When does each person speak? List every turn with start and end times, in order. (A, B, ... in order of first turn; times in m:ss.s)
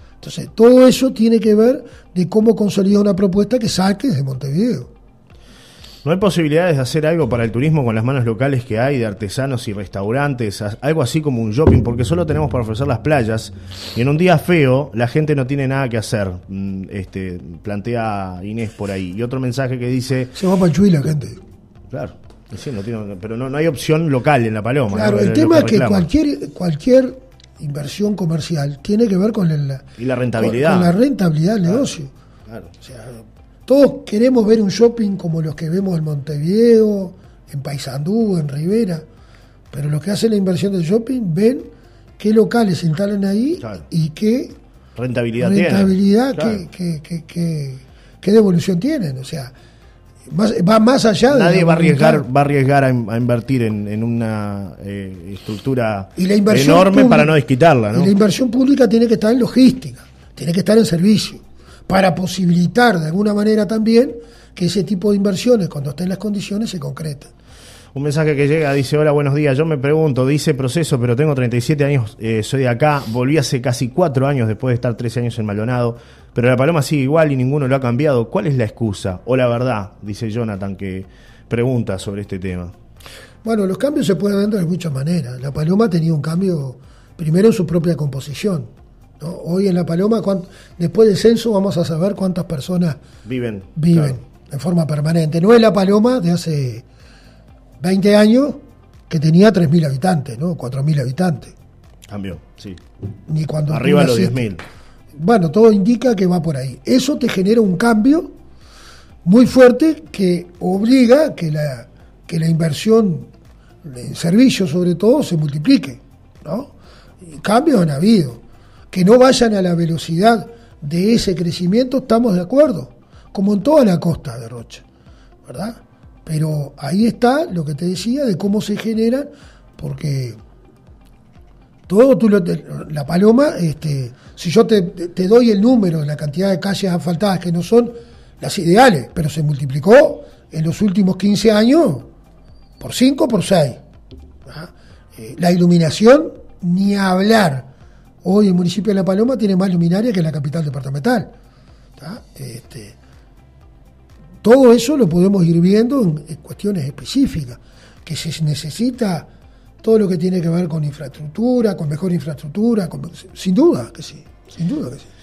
0:00.2-0:04.9 A
0:06.0-0:20.4 B
0:20.3-0:21.4 A
0:21.9-0:26.1 B
0:24.9-0:32.1 A
0:30.0-0:31.0 B
0:32.5-0:32.7 B
0:32.8-0:39.0 A
0:39.7-0:44.6 A
0:45.0-0:46.6 B
0:45.4-0:49.5 A
0:50.3-0:52.2 A
0:51.3-0:58.1 B
0:56.2-0:57.3 A
0:57.9-1:07.3 A
1:07.9-1:22.7 B
1:23.4-1:33.0 A
1:33.2-1:34.2 B
1:33.8-1:36.8 A
1:37.8-1:41.5 A
1:42.1-1:42.8 B
1:43.3-1:44.5 A
1:43.7-1:44.6 B
1:45.1-1:48.3 A
1:49.2-1:53.3 A
1:53.8-2:04.8 A
2:05.4-2:10.4 A
2:11.9-2:22.1 A
2:22.8-2:23.8 A
2:24.4-2:27.7 A
2:28.2-2:31.3 A
2:32.0-2:33.0 A
2:34.4-2:39.3 A
2:39.8-2:45.1 A